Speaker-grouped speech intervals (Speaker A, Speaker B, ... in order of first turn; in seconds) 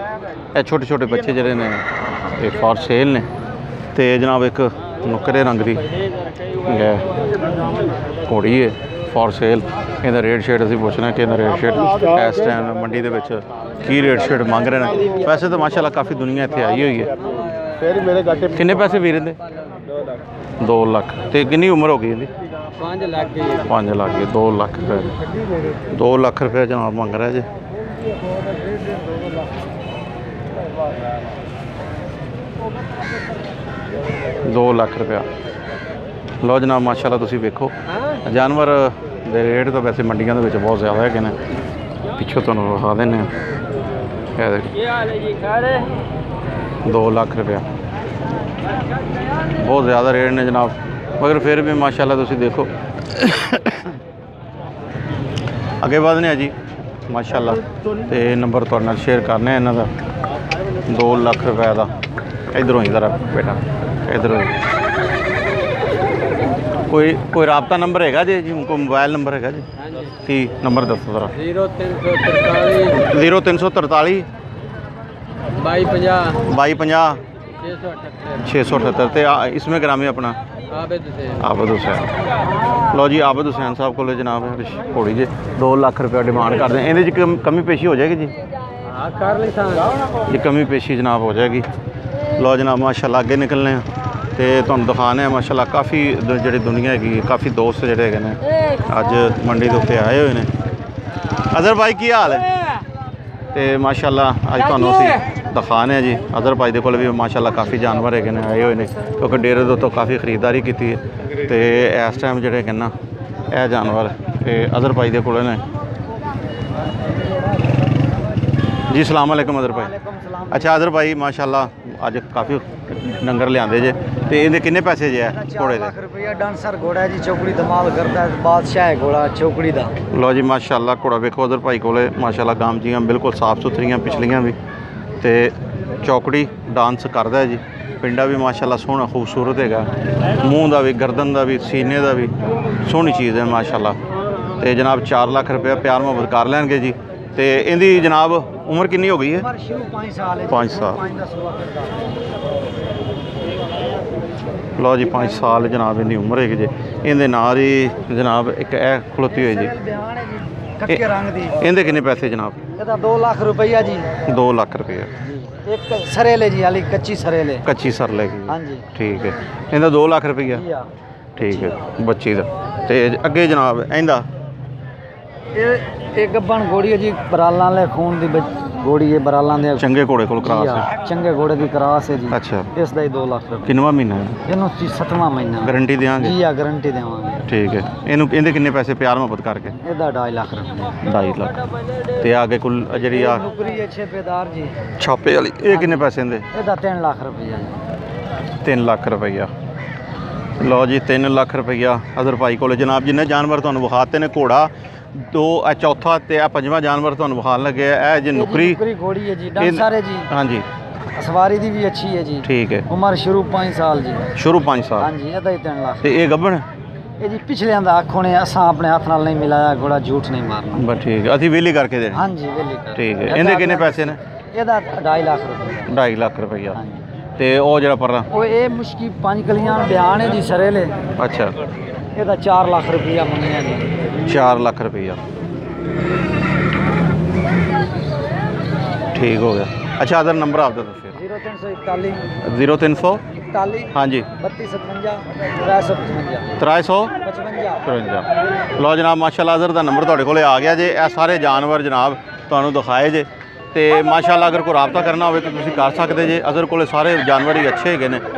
Speaker A: 0.5-3.3, 3.9-5.8, 6.7-7.0, 8.2-17.2, 18.5-19.4, 20.6-22.3, 23.5-25.1, 25.9-27.5, 34.5-35.3, 36.4-41.4, 42.2-43.3, 44.4-44.7, 46.8-47.7, 49.5-53.9, 55.8-56.5, 57.1-59.9, 60.9-61.9, 62.5-64.5, 66.9-69.7, 70.2-71.5, 72.8-74.3, 76.3-77.2, 78.4-80.4, 81.3-82.1, 82.9-88.3, 90.3-91.7, 92.4-100.5, 101.5-102.5, 103.5-112.9, 113.5-115.6, 118.9-119.9, 120.5-125.9, 130.1-134.6, 135.2-144.0, 144.6-149.5, 150.5-151.0, 154.8-159.7, 161.6-162.6, 164.3-165.1, 167.6-170.6, 171.4-174.2, 179.8-180.9, 182.3-182.7, 183.7-184.4, 185.6-186.3, 187.5-189.8, 191.0-191.5, 192.2-193.4, 195.0-196.5, 198.6-199.5, 200.6-208.8, 209.6-210.7, 212.4-212.9, 214.3-215.1, 216.0-216.7, 220.7-222.3, 223.0-224.2, 225.9-226.8, 227.4-228.3, 231.2-231.5, 234.3-235.2, 239.1-241.2, 242.4-243.2, 243.9-244.3, 246.6-247.1, 247.8-258.2
Speaker B: 22.9-23.5, 71.6-72.8, 75.6-76.3, 89.2-89.8
Speaker C: 119.7-120.8, 125.3-129.9, 149.4-152.0, 159.3-161.6, 162.8-164.1, 165.7-167.7, 168.5-168.9, 170.5-170.9, 171.4-171.7, 175.5-179.9, 180.4-183.7, 184.5-187.5, 189.8-191.0, 193.1-194.8, 195.7-197.8, 208.3-210.3, 211.2-214.3, 215.0-216.1, 217.2-220.8, 222.1-225.9, 226.8-227.0, 228.3-230.9, 232.2-234.0, 241.1-242.2, 243.3-246.6, 247.2-247.8